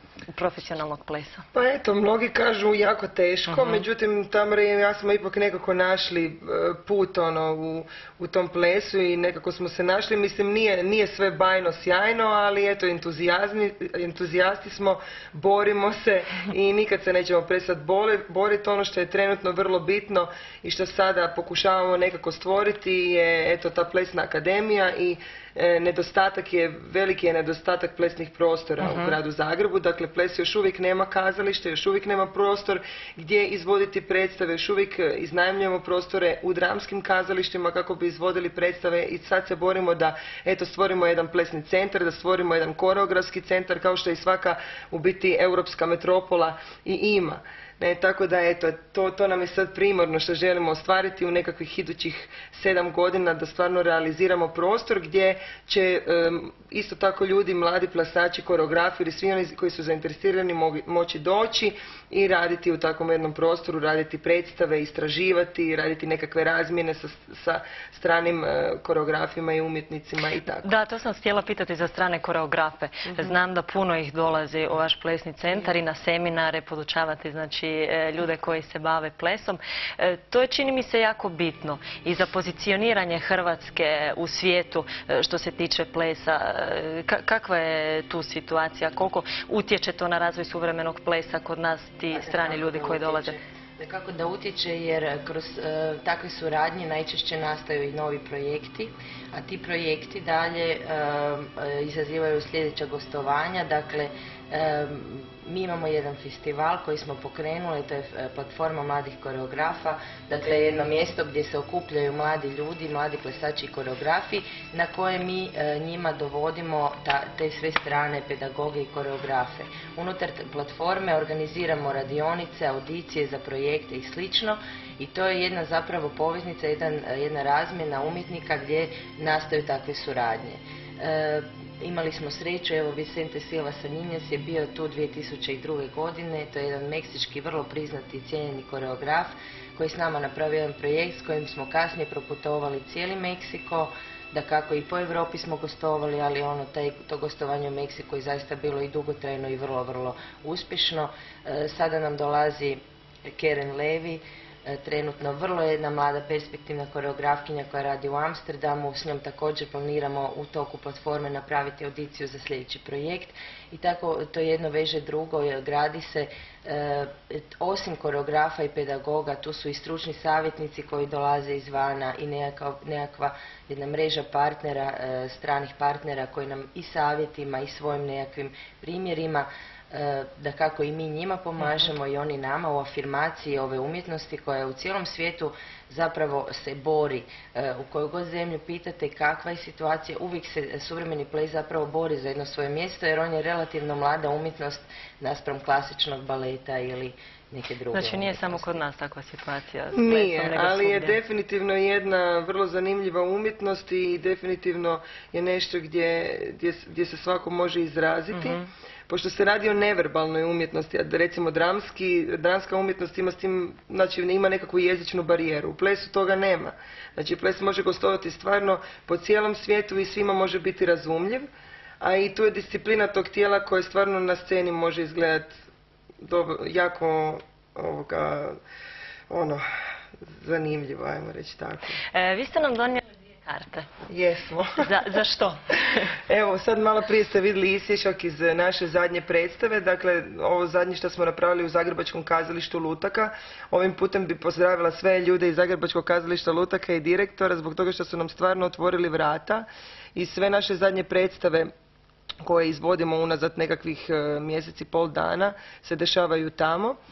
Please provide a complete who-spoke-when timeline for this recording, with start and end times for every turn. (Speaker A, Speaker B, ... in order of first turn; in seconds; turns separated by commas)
Speaker A: 0.3-1.4, Speaker B: 1.5-70.7, Speaker A: 3.5-3.8, Speaker A: 28.8-29.2, Speaker A: 70.6-93.4, Speaker C: 92.1-198.8, Speaker A: 197.9-201.2, Speaker B: 199.9-221.5, Speaker A: 208.3-208.7, Speaker B: 222.0-225.6, Speaker B: 226.2-228.6, Speaker B: 229.3-229.6, Speaker B: 230.2-232.0, Speaker A: 232.1-233.9, Speaker B: 234.1-234.9, Speaker A: 234.8-236.1, Speaker B: 236.3-251.7, Speaker B: 252.4-257.0